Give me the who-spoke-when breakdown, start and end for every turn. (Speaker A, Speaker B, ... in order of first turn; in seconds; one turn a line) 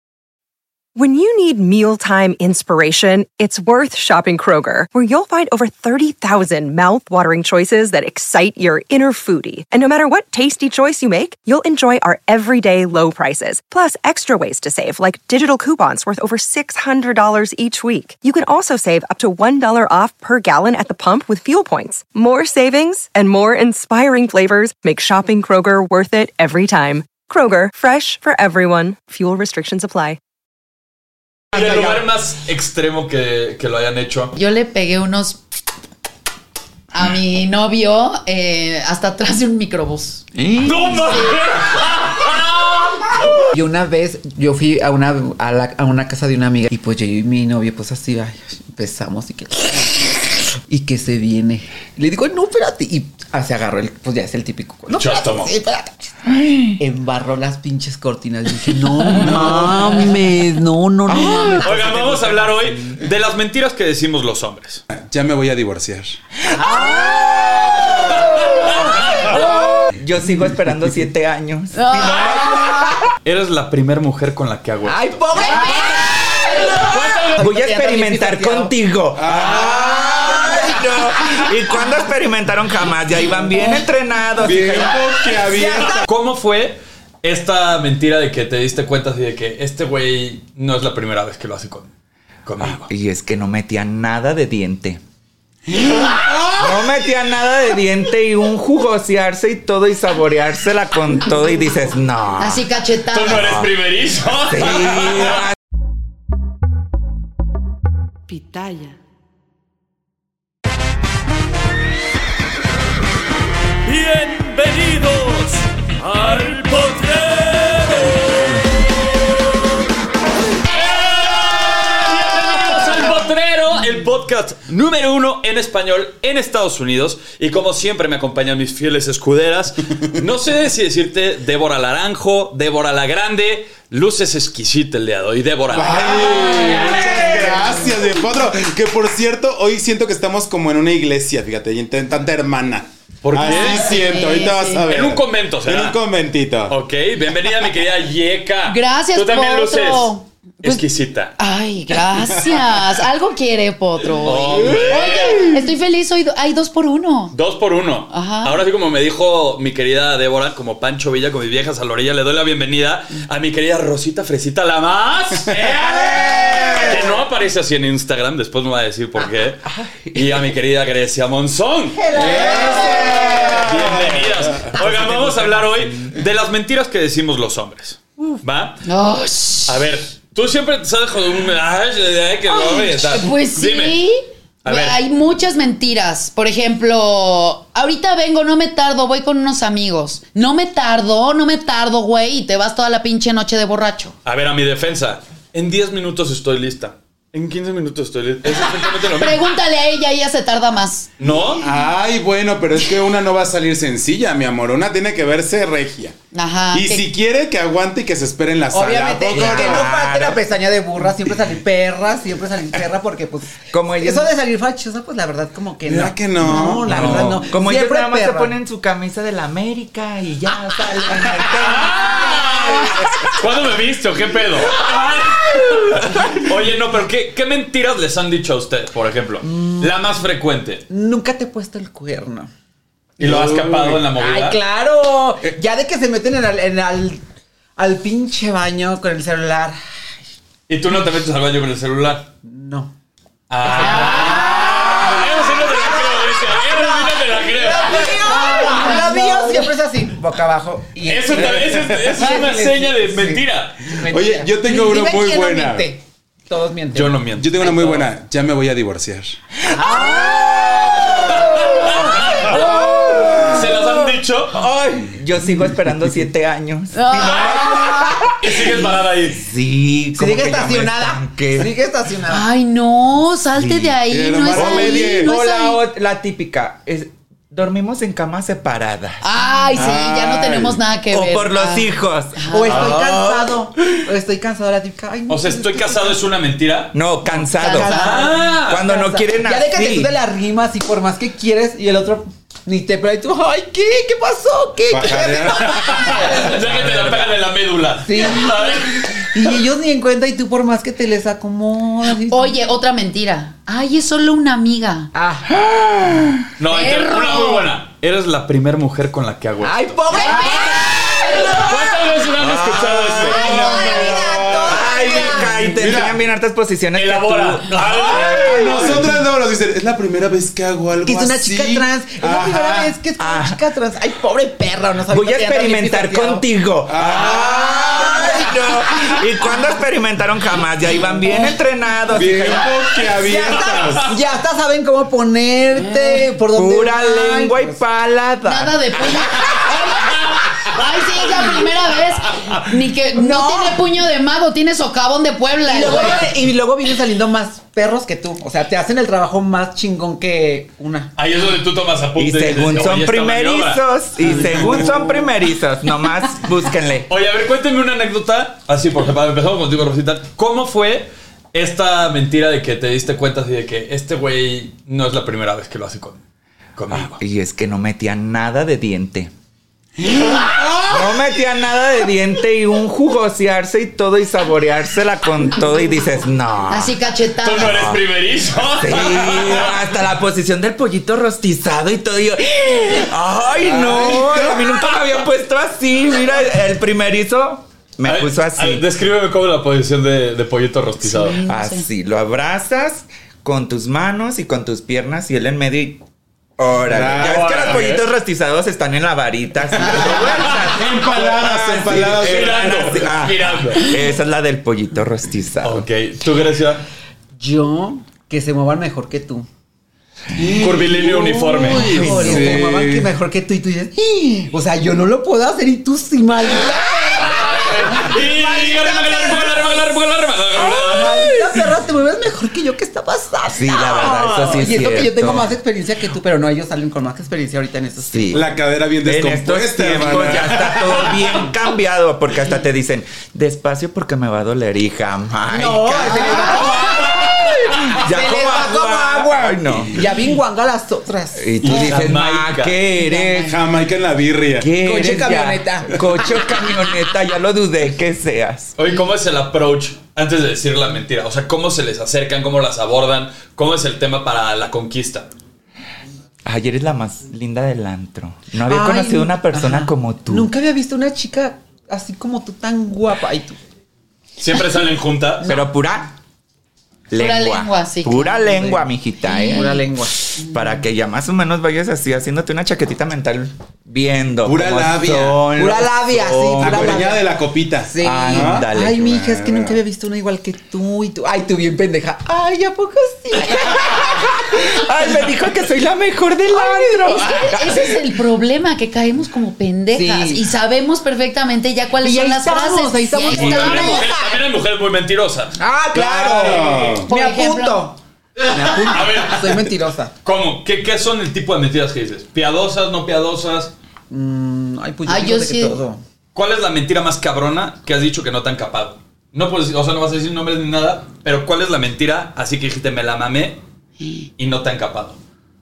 Speaker A: 1.0-30.2
Speaker B: 31.5-34.4
Speaker C: 31.5-31.8
Speaker D: 34.4-35.4
Speaker D: 36.9-40.2
Speaker E: 40.4-40.8
Speaker B: 40.6-43.5
Speaker D: 40.8-41.4
Speaker C: 43.5-56.1
Speaker B: 54.9-55.5
Speaker E: 56.3-56.8
Speaker C: 56.8-62.9
Speaker F: 59.2-59.9
Speaker E: 61.1-61.8
Speaker B: 61.6-64.8
Speaker F: 65.0-66.2
Speaker E: 66.5-73.0
Speaker C: 66.5-69.7
Speaker B: 68.4-69.4
Speaker D: 71.7-73.0
Speaker B: 73.2-75.5
Speaker C: 74.8-78.7
Speaker D: 75.3-76.7
Speaker E: 76.2-85.1
Speaker B: 76.7-77.4
Speaker F: 79.2-80.6
Speaker C: 79.5-80.9
Speaker F: 84.4-86.1
Speaker C: 85.4-86.0
Speaker B: 86.0-91.9
Speaker B: 92.5-92.9
Speaker E: 92.7-95.0
Speaker F: 95.7-96.6
Speaker E: 96.5-102.7
Speaker D: 102.4-103.5
Speaker B: 103.1-105.4
Speaker E: 103.3-103.7
Speaker E: 104.5-105.6
Speaker B: 113.8-118.6
Speaker B: 120.7-137.4
Speaker F: 135.7-146.8
Speaker E: 136.3-137.7
Speaker B: 143.2-143.9
Speaker D: 143.4-144.8
Speaker B: 144.9-146.0
Speaker B: 146.7-151.3
Speaker D: 148.7-150.8
Speaker D: 151.4-157.4
Speaker B: 154.2-155.6
Speaker B: 157.3-172.2
Speaker D: 158.1-158.6
Speaker E: 165.7-167.2
Speaker E: 169.7-170.4
Speaker C: 172.0-173.6
Speaker F: 172.1-175.6
Speaker E: 172.3-173.9
Speaker B: 172.8-178.8
Speaker D: 178.8-179.8
Speaker B: 179.7-184.0
Speaker D: 182.5-194.2
Speaker B: 184.7-185.0
Speaker B: 194.2-199.4
Speaker D: 198.9-201.1
Speaker B: 201.2-201.7
Speaker F: 201.6-206.2
Speaker D: 206.3-207.1
Speaker F: 206.7-209.9
Speaker C: 208.7-218.5
Speaker E: 209.3-210.4
Speaker E: 213.7-214.3
Speaker F: 215.8-217.4
Speaker E: 216.5-223.4
Speaker B: 221.4-230.8
Speaker E: 224.8-226.3
Speaker C: 229.4-229.9
Speaker C: 230.9-232.5
Speaker F: 233.2-234.0
Speaker B: 233.2-234.6
Speaker C: 234.1-237.2
Speaker C: 237.8-239.8
Speaker B: 240.7-242.3
Speaker C: 242.4-242.9
Speaker B: 243.5-248.5
Speaker C: 243.6-257.2
Speaker D: 243.8-244.6
Speaker D: 248.2-249.7
Speaker B: 251.1-253.8
Speaker F: 251.4-251.8
Speaker F: 254.1-255.9
Speaker B: 256.9-258.1
Speaker F: 257.3-259.4
Speaker E: 259.6-271.7
Speaker C: 259.7-260.3
Speaker B: 261.2-264.6
Speaker C: 261.2-261.7
Speaker C: 262.3-262.6
Speaker D: 266.9-268.3
Speaker B: 268.4-269.4
Speaker C: 270.2-272.5
Speaker D: 272.3-275.8
Speaker E: 273.6-279.8
Speaker F: 274.1-275.3
Speaker D: 279.2-282.9
Speaker F: 279.8-280.8
Speaker E: 281.1-283.9
Speaker C: 282.5-286.2
Speaker B: 282.7-283.0
Speaker B: 285.3-286.9
Speaker E: 286.9-290.1
Speaker C: 287.3-296.6
Speaker D: 287.6-288.3
Speaker B: 287.8-288.9
Speaker F: 294.9-296.3
Speaker B: 295.6-299.3
Speaker E: 296.4-297.4
Speaker C: 298.1-302.6
Speaker D: 302.3-305.1
Speaker C: 305.1-305.5
Speaker E: 305.5-306.5
Speaker B: 306.6-310.5
Speaker D: 306.7-307.7
Speaker C: 309.6-312.1
Speaker D: 310.1-311.6
Speaker B: 311.3-314.3
Speaker E: 312.4-319.1
Speaker C: 313.2-315.8
Speaker F: 314.0-316.2
Speaker B: 316.9-319.0
Speaker F: 318.0-322.9
Speaker C: 321.0-326.4
Speaker E: 323.2-323.6
Speaker E: 325.1-333.4
Speaker F: 326.9-328.3
Speaker C: 327.3-329.2
Speaker F: 332.1-334.2
Speaker C: 333.2-337.8
Speaker E: 336.5-339.8
Speaker D: 338.5-346.3
Speaker B: 342.3-342.6
Speaker C: 343.1-343.8
Speaker C: 345.6-351.1
Speaker B: 351.2-355.0
Speaker E: 352.2-357.1
Speaker B: 357.1-366.2
Speaker B: 366.8-367.2
Speaker E: 366.9-369.3
Speaker F: 370.0-371.0
Speaker E: 370.9-377.0
Speaker D: 376.7-377.9
Speaker B: 377.4-379.7
Speaker E: 377.6-378.0
Speaker E: 378.8-388.9
Speaker F: 383.6-384.8
Speaker B: 388.1-391.4
Speaker D: 391.1-391.9
Speaker E: 391.4-396.0
Speaker E: 396.6-405.9
Speaker F: 396.9-397.8
Speaker B: 397.2-398.1
Speaker F: 399.8-402.9
Speaker B: 400.2-403.9
Speaker B: 405.6-406.8
Speaker C: 407.4-409.5
Speaker F: 410.4-413.1
Speaker B: 410.6-412.1
Speaker C: 411.0-419.9
Speaker E: 411.7-412.7
Speaker B: 417.3-421.4
Speaker C: 420.5-428.5
Speaker E: 423.5-425.5
Speaker E: 428.1-428.5
Speaker F: 428.3-431.4
Speaker E: 429.1-440.0
Speaker C: 435.5-442.1
Speaker E: 441.4-443.6
Speaker B: 441.6-442.8
Speaker F: 441.7-441.9
Speaker C: 443.0-443.5
Speaker F: 443.4-444.7
Speaker E: 444.6-448.8
Speaker C: 444.8-446.9
Speaker B: 448.8-455.3
Speaker E: 456.4-460.5
Speaker C: 458.7-463.6
Speaker B: 464.4-465.5
Speaker E: 465.4-466.1
Speaker E: 467.1-469.8
Speaker D: 467.2-468.6
Speaker C: 468.6-468.9
Speaker D: 469.2-469.8
Speaker C: 469.4-470.3
Speaker E: 470.3-477.2
Speaker D: 470.4-470.8
Speaker F: 474.4-475.5
Speaker C: 475.6-477.3
Speaker F: 476.6-479.8
Speaker C: 477.9-485.2
Speaker E: 478.0-479.3
Speaker E: 483.6-488.0
Speaker C: 486.6-487.3
Speaker D: 487.0-494.1
Speaker C: 489.9-490.5
Speaker C: 492.0-494.4
Speaker E: 493.3-494.0
Speaker B: 493.3-495.6
Speaker C: 495.6-500.1
Speaker F: 495.9-497.1
Speaker B: 496.4-496.9
Speaker D: 497.0-497.9
Speaker B: 498.4-499.7
Speaker B: 500.2-503.7
Speaker C: 504.1-506.0
Speaker D: 505.1-505.8
Speaker B: 506.4-513.6
Speaker D: 514.0-514.3
Speaker B: 514.4-515.2